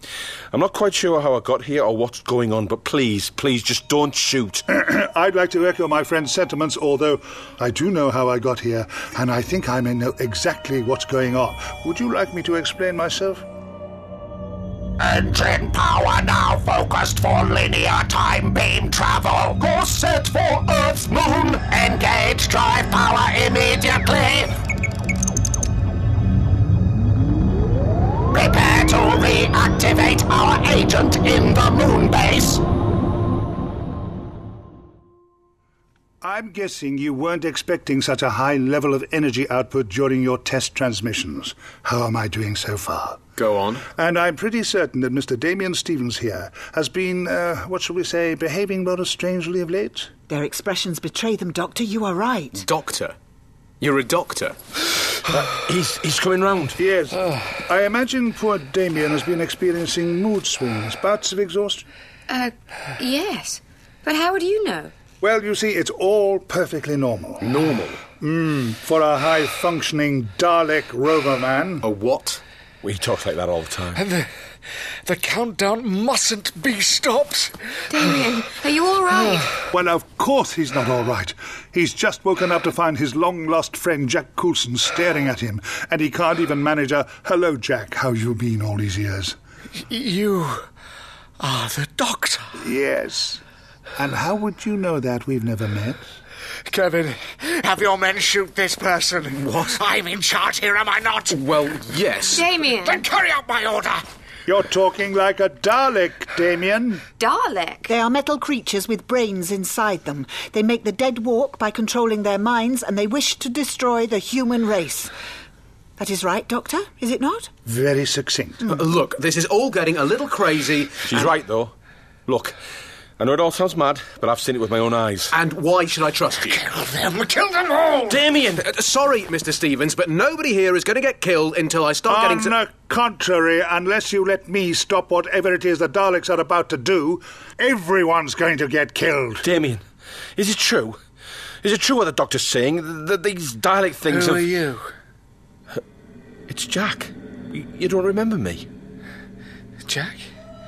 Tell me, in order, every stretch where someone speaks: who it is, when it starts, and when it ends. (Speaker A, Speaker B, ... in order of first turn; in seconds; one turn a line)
Speaker A: 0.5-4.6
Speaker B: 4.7-13.4
Speaker C: 15.0-24.5
Speaker C: 28.3-32.6
Speaker B: 36.2-43.3
Speaker D: 43.4-43.8
Speaker B: 44.0-50.1
Speaker E: 50.3-52.7
Speaker D: 52.6-53.2
Speaker D: 53.8-54.6
Speaker A: 55.3-56.8
Speaker B: 56.8-61.9
Speaker F: 62.3-64.9
Speaker B: 65.2-67.5
Speaker D: 67.5-67.9
Speaker B: 68.2-71.9
Speaker D: 71.8-72.4
Speaker A: 72.8-74.0
Speaker G: 74.0-74.3
Speaker G: 75.1-77.5
Speaker F: 77.9-79.5
Speaker B: 79.7-89.4
Speaker G: 89.8-90.7
Speaker G: 91.4-92.5
Speaker B: 92.6-93.4
Speaker B: 94.0-96.1
Speaker G: 96.7-104.0
Speaker D: 99.4-99.7
Speaker D: 101.3-102.5
Speaker F: 102.3-103.0
Speaker B: 104.5-107.0
Speaker F: 107.2-107.9
Speaker E: 107.9-115.1
Speaker E: 116.0-117.5
Speaker B: 117.7-118.6
Speaker D: 118.6-121.3
Speaker A: 121.0-121.7
Speaker A: 122.3-122.5
Speaker A: 123.2-125.3
Speaker D: 125.3-126.7
Speaker G: 126.6-128.2
Speaker A: 128.1-128.7
Speaker D: 128.6-132.5
Speaker B: 132.1-139.5
Speaker A: 139.4-139.8
Speaker A: 140.4-141.0
Speaker A: 141.6-144.5
Speaker G: 144.1-144.9
Speaker A: 146.5-148.7
Speaker G: 149.9-150.2